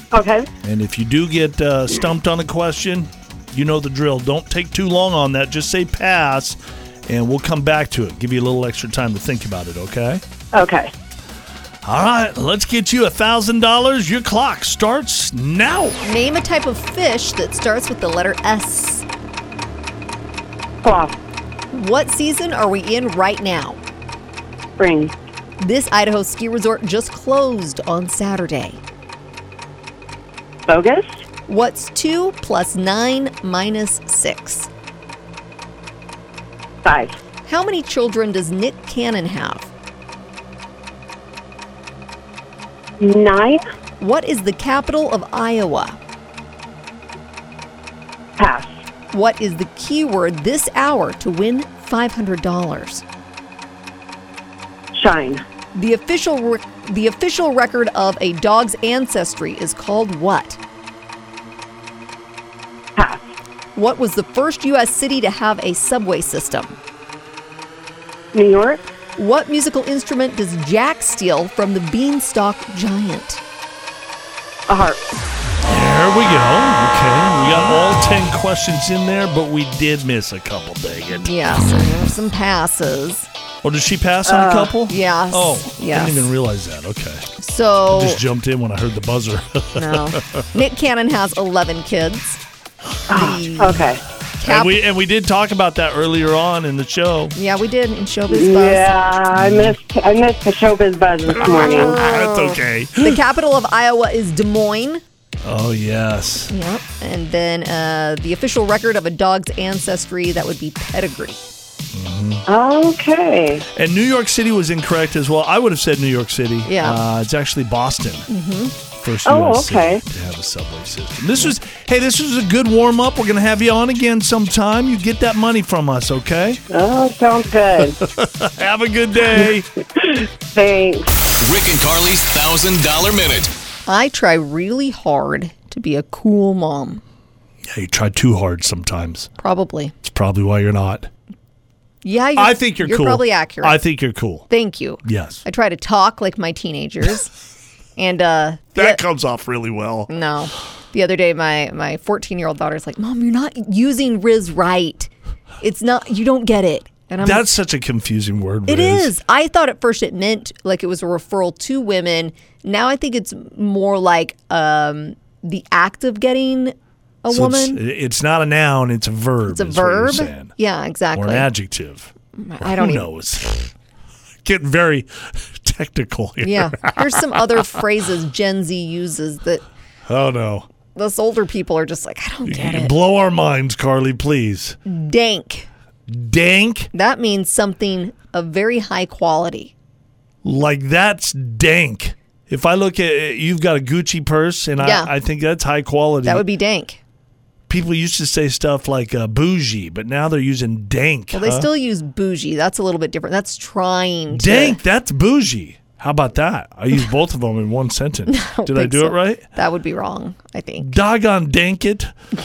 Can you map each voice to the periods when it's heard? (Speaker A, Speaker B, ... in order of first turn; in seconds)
Speaker A: 0.1-0.5, 10.5-10.9, 20.8-21.2, 24.8-25.1, 30.7-31.2, 36.9-37.2, 43.0-43.6, 48.4-48.8, 54.9-55.4, 63.0-63.3, 68.3-68.8, 74.7-75.0, 84.2-84.8, 93.1-94.0, 98.3-102.0, 112.5-113.7, 119.2-120.0, 126.7-128.0, 130.0-131.1
Speaker B: 0.6-10.2, 11.8-16.0, 75.6-81.9, 83.6-87.3, 87.9-90.4, 94.4-97.3, 99.3-99.8, 101.5-103.2, 105.4-106.5, 111.9-112.5, 113.7-118.3, 119.0-126.6, 128.0-129.7, 137.7-139.3, 140.0-141.1, 142.3-144.5, 145.0-145.4, 148.8-150.1, 157.2-159.2, 167.3-170.6, 171.1-173.7, 174.4-177.8, 180.1-180.7, 182.4-184.8, 186.1-186.9, 190.4-196.5, 197.7-201.7, 204.3-209.4, 210.8-212.1
Speaker C: 16.0-19.1, 21.7-23.8, 25.6-28.8, 31.5-34.7, 37.5-39.7, 44.0-46.0, 49.1-53.0, 55.8-60.6, 63.8-66.8, 69.2-73.4, 81.2-83.3, 84.9-86.3, 87.4-88.2, 89.8-92.4, 93.1-93.9, 94.4-94.8, 97.3-98.9, 101.4-105.0, 106.5-111.4, 116.7-117.0, 118.3-118.7, 133.9-137.0, 139.4-139.9, 142.0-143.8, 144.5-147.3, 148.0-149.0, 150.1-155.1, 155.6-157.5, 158.7-167.8, 169.5-171.5, 172.4-173.1, 176.4-179.6, 180.9-182.9, 184.8-185.7, 186.9-189.7, 194.8-195.1, 196.2-197.0, 201.3-204.8, 208.3-210.9
Speaker D: 131.4-133.5